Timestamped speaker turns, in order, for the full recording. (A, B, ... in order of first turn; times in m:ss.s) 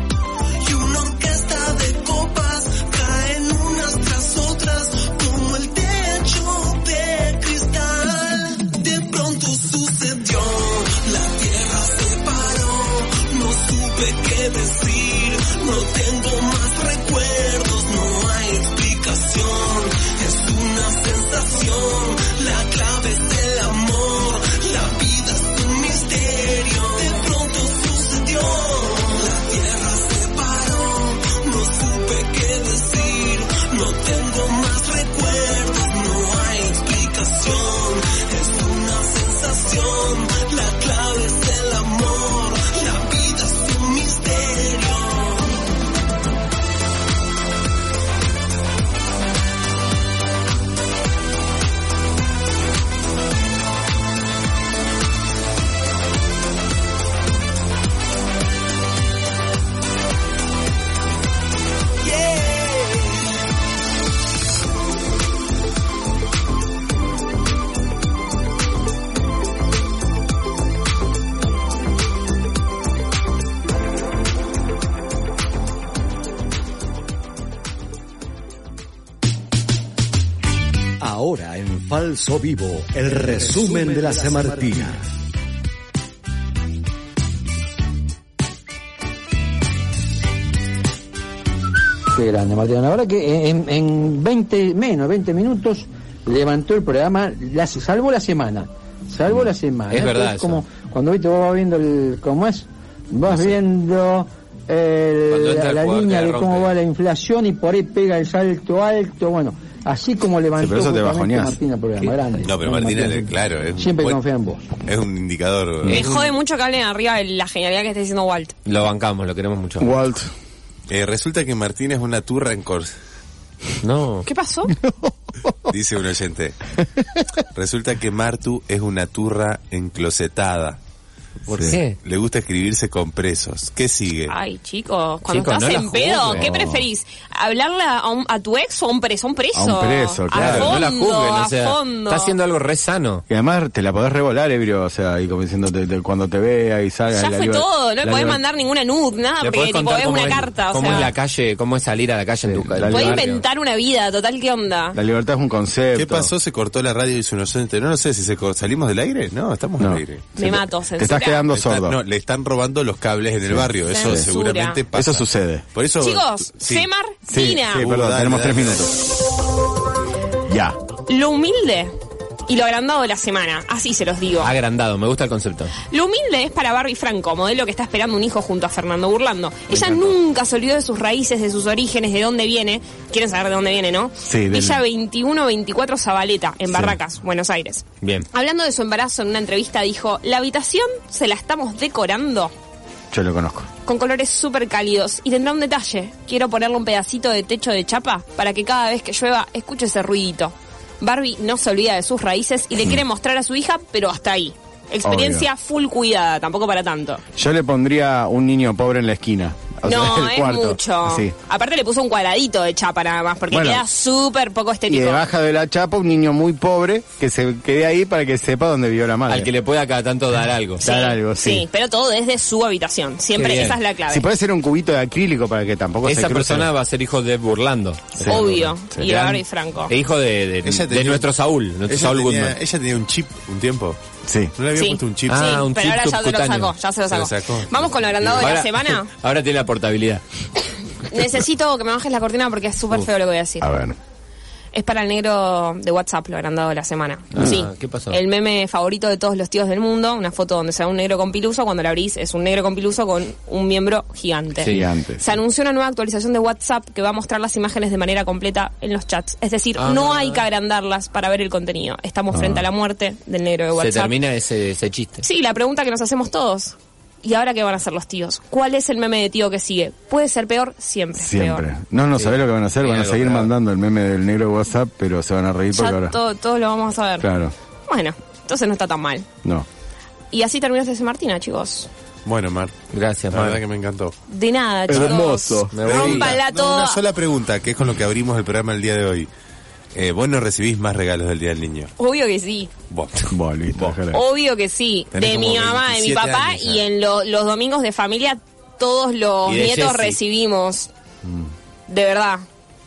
0:00.6-0:45.7 A
1:02.0-1:03.4 A
1:21.0-1:25.1 B
1:32.1-1:54.7 C
1:39.9-1:40.6 D
1:43.3-1:43.6 D
1:45.3-1:46.7 D
1:50.6-1:51.6 E
1:52.4-1:54.2 F
1:54.8-1:56.0 F
1:55.9-1:58.5 G
1:58.7-2:00.0 D
1:59.8-2:00.3 E
2:00.9-2:02.9 F
2:03.8-2:04.3 D
2:04.2-2:04.8 G
2:04.7-2:05.7 E
2:05.7-2:06.6 F
2:07.0-2:07.3 E
2:07.5-2:10.8 F
2:11.5-2:11.8 E
2:11.5-2:12.0 D
2:12.0-2:14.3 F
2:14.3-2:22.4 G
2:15.3-2:16.7 D
2:16.3-2:16.8 E
2:19.5-2:20.8 E
2:20.3-2:23.2 D
2:20.5-2:20.7 F
2:23.3-2:28.4 E
2:27.1-2:31.1 G
2:29.4-2:33.4 D
2:32.4-2:33.2 E
2:32.9-2:35.0 G
2:34.9-2:36.3 E
2:35.9-2:40.3 F
2:39.8-2:42.0 E
2:40.4-2:41.5 G
2:41.5-2:46.9 F
2:43.5-2:44.3 E
2:43.9-2:44.8 G
2:44.9-2:45.6 E
2:46.0-2:47.8 G
2:47.3-2:49.0 E
2:47.8-2:48.9 F
2:50.4-2:50.8 E
2:51.1-2:51.9 G
2:52.5-2:54.5 G
2:54.4-2:55.8 D
2:55.8-3:12.5 G
2:59.7-3:00.1 D
3:04.3-3:04.8 E
3:08.0-3:08.3 D
3:13.1-3:13.7 E
3:13.8-3:27.2 G
3:25.0-3:25.5 E
3:27.4-3:31.3 E
3:29.8-3:35.2 G
3:33.5-3:33.8 E
3:34.9-3:39.5 E
3:39.3-3:40.8 D
3:40.8-3:41.7 E
3:40.8-3:44.3 G
3:43.4-3:43.8 D
3:44.1-3:46.7 E
3:46.0-3:52.6 D
3:48.2-3:49.0 E
3:48.3-3:49.9 G
3:50.6-3:51.3 F
3:51.9-3:54.0 F
3:54.2-3:54.5 E
3:54.6-3:55.6 F
3:54.8-3:59.1 G
3:55.3-3:56.8 D
3:57.1-3:58.5 F
3:58.4-4:00.2 D
4:01.0-4:03.7 G
4:03.6-4:04.0 E
4:04.7-4:24.1 G
4:07.3-4:08.2 D
4:14.6-4:14.9 D
4:14.7-4:15.2 E
4:19.8-4:20.4 D
4:22.3-4:22.6 E
4:23.8-4:25.2 D
4:25.2-4:31.6 G
4:31.2-4:36.2 E
4:32.2-4:33.5 D
4:35.7-4:37.3 G
4:37.2-4:37.5 E
4:37.9-4:39.3 G
4:40.3-4:41.9 G
4:42.2-4:42.8 F
4:42.9-4:43.6 D
4:43.3-4:44.2 F
4:44.3-4:47.0 G
4:44.9-4:45.8 E
4:45.7-4:46.4 D
4:45.8-4:49.3 F
4:49.9-4:51.9 F
4:52.0-4:52.7 G
4:52.9-4:54.0 F
4:53.3-4:54.2 E
4:54.1-5:00.9 G
4:55.1-4:56.8 F
4:59.5-5:00.2 D
5:01.2-5:01.5 E
5:01.9-5:02.5 G